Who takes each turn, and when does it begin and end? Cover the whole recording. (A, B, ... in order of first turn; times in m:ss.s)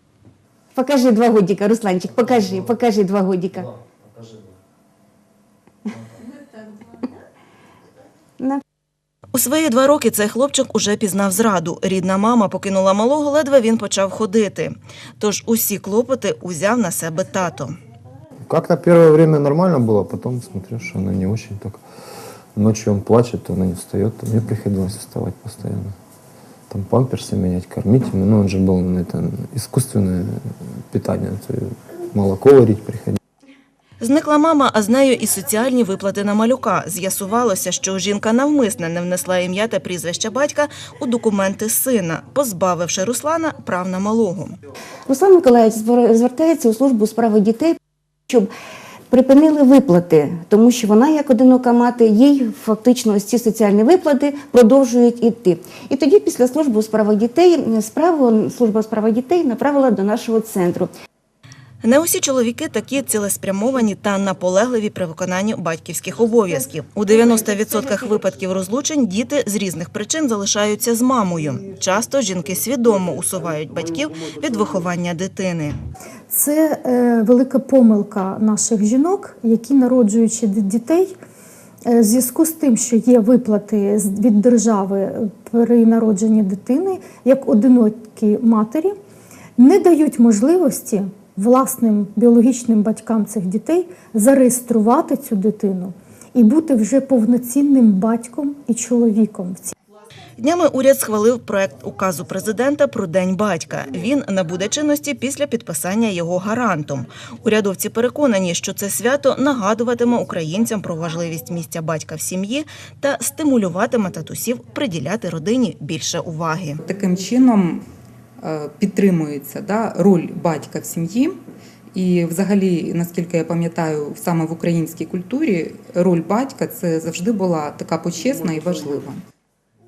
0:00.7-0:03.7 A
0:09.3-0:17.7 B
0:18.5-0:21.8 C
0:22.6-0:25.9 C
0:26.7-0:33.2 C
0:34.0-0:44.6 B
0:45.0-0:47.8 A
0:49.1-1:00.9 A
1:01.8-1:15.8 B
1:07.1-1:07.9 A
1:16.3-1:21.1 D
1:21.8-1:28.9 D
1:29.6-1:39.7 D
1:40.4-1:56.8 B
1:56.8-1:57.8 E
1:58.4-2:01.3 E
2:01.9-2:09.2 E